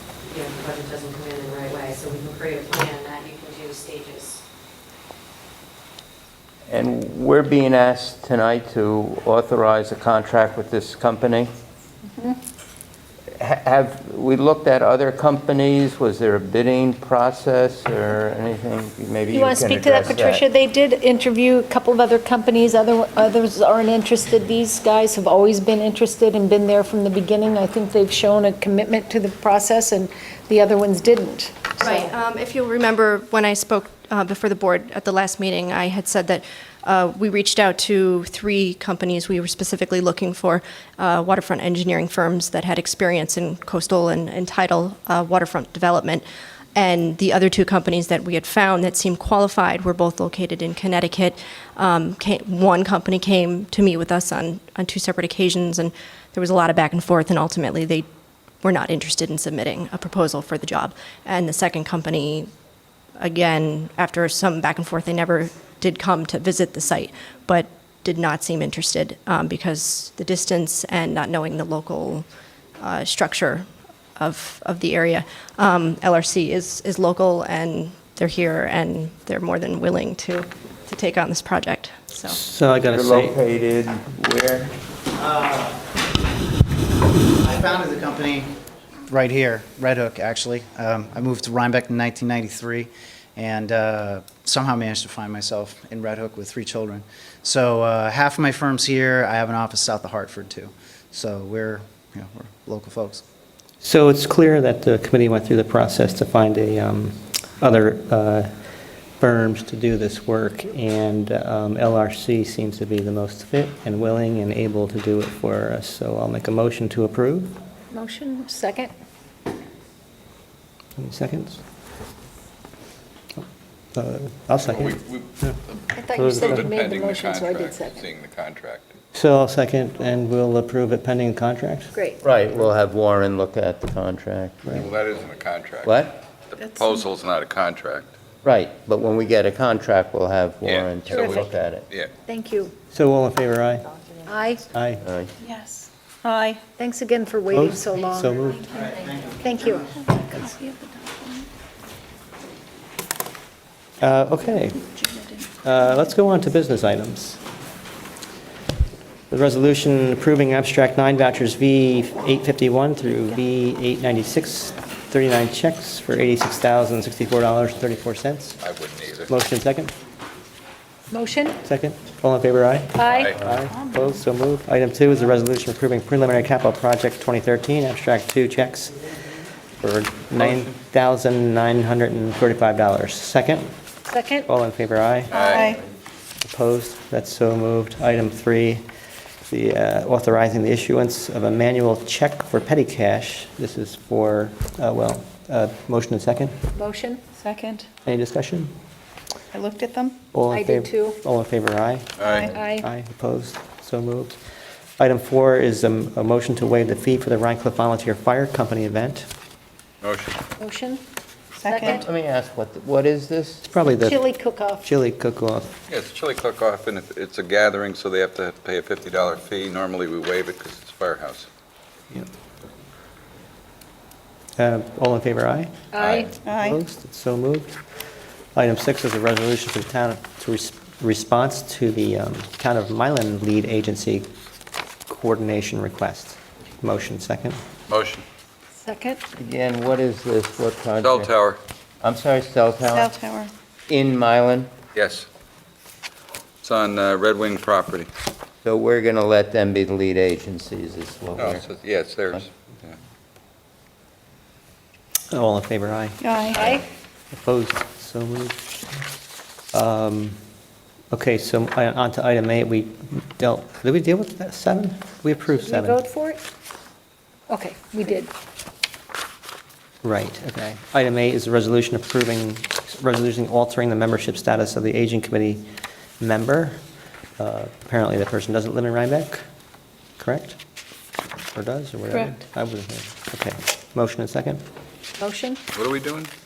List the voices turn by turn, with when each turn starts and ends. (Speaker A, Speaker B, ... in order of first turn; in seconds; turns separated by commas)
Speaker A: 0.2-4.4, Speaker B: 6.7-11.5, Speaker C: 12.1-12.4, Speaker B: 13.3-20.4, Speaker C: 19.3-32.1, Speaker D: 31.8-58.0, Speaker D: 58.6-62.5, Speaker D: 63.2-72.2, Speaker D: 72.8-73.6, Speaker D: 74.2-82.4, Speaker E: 82.2-83.3, Speaker B: 82.9-84.7, Speaker F: 85.1-85.7, Speaker F: 87.4-88.5, Speaker F: 89.1-103.2, Speaker E: 103.8-108.5, Speaker E: 109.2-117.6, Speaker C: 117.9-118.9, Speaker E: 121.0-121.6, Speaker E: 123.3-125.5, Speaker G: 124.6-125.8, Speaker C: 125.9-128.1, Speaker E: 126.1-126.8, Speaker G: 126.4-128.9, Speaker E: 129.1-131.9, Speaker C: 131.9-132.2, Speaker B: 132.2-134.8, Speaker G: 134.7-138.1, Speaker B: 135.8-136.2, Speaker H: 136.6-137.0, Speaker B: 138.4-141.9, Speaker G: 140.6-141.3, Speaker C: 141.1-141.5, Speaker C: 142.2-142.7, Speaker E: 142.9-143.9, Speaker C: 144.2-144.6, Speaker E: 144.7-145.0, Speaker B: 145.0-145.3, Speaker H: 145.4-146.6, Speaker C: 146.8-148.4, Speaker E: 147.5-148.8, Speaker F: 148.9-149.3, Speaker C: 149.4-149.9, Speaker H: 149.9-151.4, Speaker E: 154.0-154.8, Speaker H: 154.9-155.5, Speaker E: 155.6-157.4, Speaker E: 159.3-168.6, Speaker G: 168.6-169.3, Speaker E: 169.3-169.9, Speaker C: 171.1-171.6, Speaker E: 171.6-178.9, Speaker C: 172.9-173.3, Speaker G: 173.1-173.4, Speaker H: 173.7-174.1, Speaker E: 179.8-183.7, Speaker G: 180.4-180.7, Speaker C: 184.1-184.5, Speaker E: 184.4-185.3, Speaker G: 185.3-185.8, Speaker H: 185.3-185.8, Speaker E: 186.4-188.8, Speaker E: 189.5-196.6, Speaker C: 196.7-197.2, Speaker H: 197.4-197.8, Speaker E: 198.1-198.7, Speaker H: 199.5-200.2, Speaker E: 200.3-204.4, Speaker C: 200.5-201.2, Speaker G: 202.2-202.5, Speaker C: 202.2-202.8, Speaker E: 205.0-209.3, Speaker G: 210.0-210.4, Speaker C: 210.6-211.0, Speaker C: 211.6-212.1, Speaker H: 211.6-212.0, Speaker B: 211.9-213.7, Speaker E: 213.7-214.2, Speaker C: 213.8-214.8, Speaker E: 214.8-215.7, Speaker G: 215.9-221.5, Speaker E: 224.6-227.8, Speaker C: 225.9-226.3, Speaker G: 226.0-226.2, Speaker H: 226.4-226.8, Speaker E: 228.5-234.3, Speaker E: 235.1-237.6, Speaker G: 237.9-238.2, Speaker C: 238.8-239.2, Speaker B: 239.4-241.3, Speaker G: 241.0-241.6, Speaker B: 242.0-243.1, Speaker H: 242.8-243.5, Speaker B: 243.9-244.7, Speaker G: 244.9-245.3, Speaker G: 246.6-248.1, Speaker B: 248.6-251.6, Speaker G: 251.3-252.9, Speaker E: 255.3-258.8, Speaker H: 256.2-256.6, Speaker C: 256.5-256.8, Speaker E: 259.7-260.4, Speaker E: 261.1-266.0, Speaker C: 265.5-266.4, Speaker C: 267.5-268.3, Speaker E: 270.0-275.6, Speaker E: 276.2-276.8, Speaker E: 277.4-279.4, Speaker E: 280.2-280.6, Speaker E: 281.5-284.6, Speaker C: 285.2-285.6, Speaker G: 285.7-286.3